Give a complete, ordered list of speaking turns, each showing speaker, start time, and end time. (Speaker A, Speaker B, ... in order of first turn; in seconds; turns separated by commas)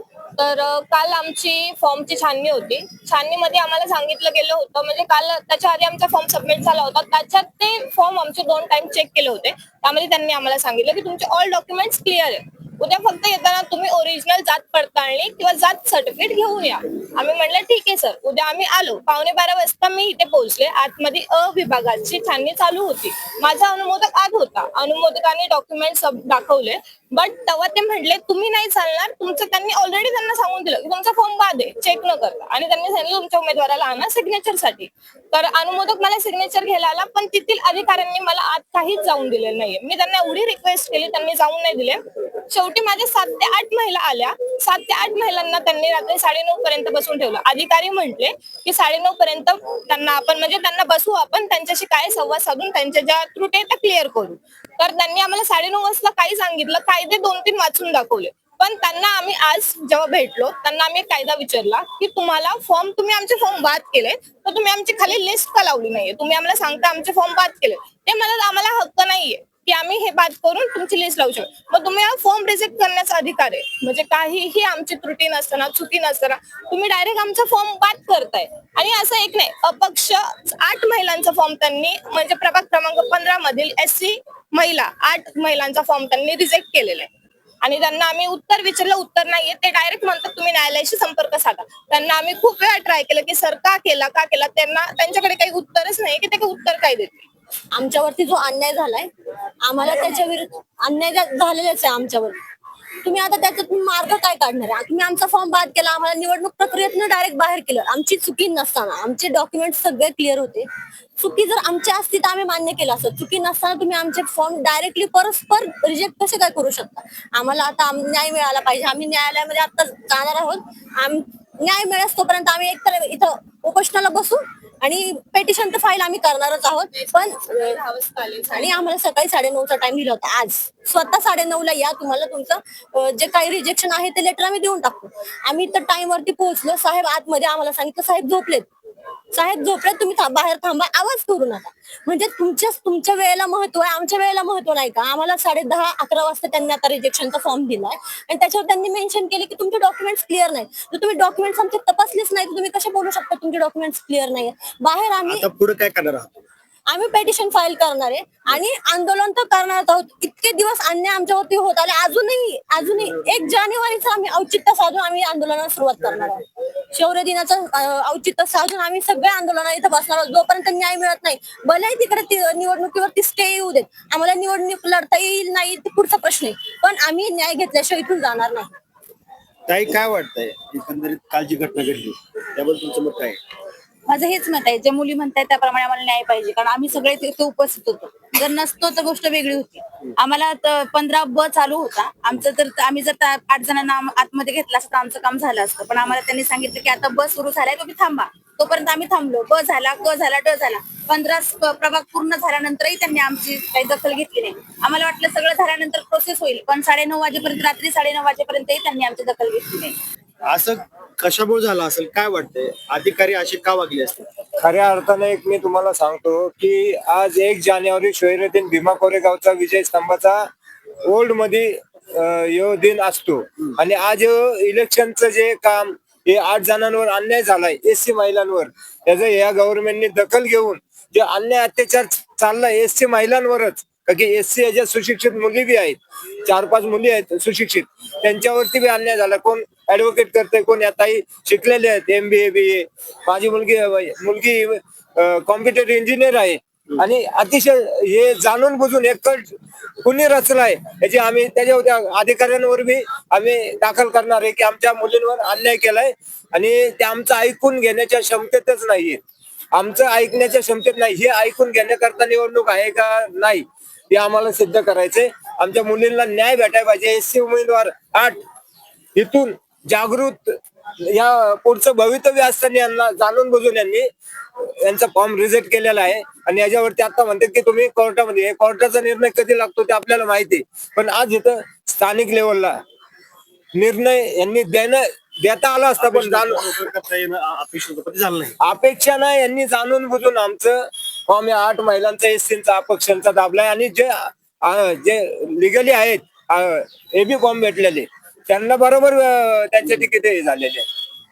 Speaker A: 0.4-87.1, Speaker A: 87.6-97.3, Speaker B: 97.8-99.1, Speaker B: 99.7-102.4, Speaker B: 103.0-110.7, Speaker B: 111.2-127.7, Speaker A: 126.9-128.9, Speaker B: 128.6-138.7, Speaker B: 139.3-155.4, Speaker C: 155.2-156.4, Speaker B: 156.9-166.4, Speaker C: 162.8-163.5, Speaker C: 166.0-166.4, Speaker B: 166.9-178.7, Speaker C: 179.7-183.4, Speaker D: 184.1-210.0, Speaker C: 210.5-214.3, Speaker E: 214.7-220.4, Speaker E: 221.1-249.5, Speaker E: 250.0-259.2, Speaker E: 259.8-268.4, Speaker E: 269.1-270.5, Speaker E: 271.1-274.1, Speaker E: 274.9-282.8, Speaker E: 283.8-286.6, Speaker C: 286.0-288.5, Speaker E: 288.7-290.8, Speaker E: 291.3-300.9, Speaker C: 299.8-300.1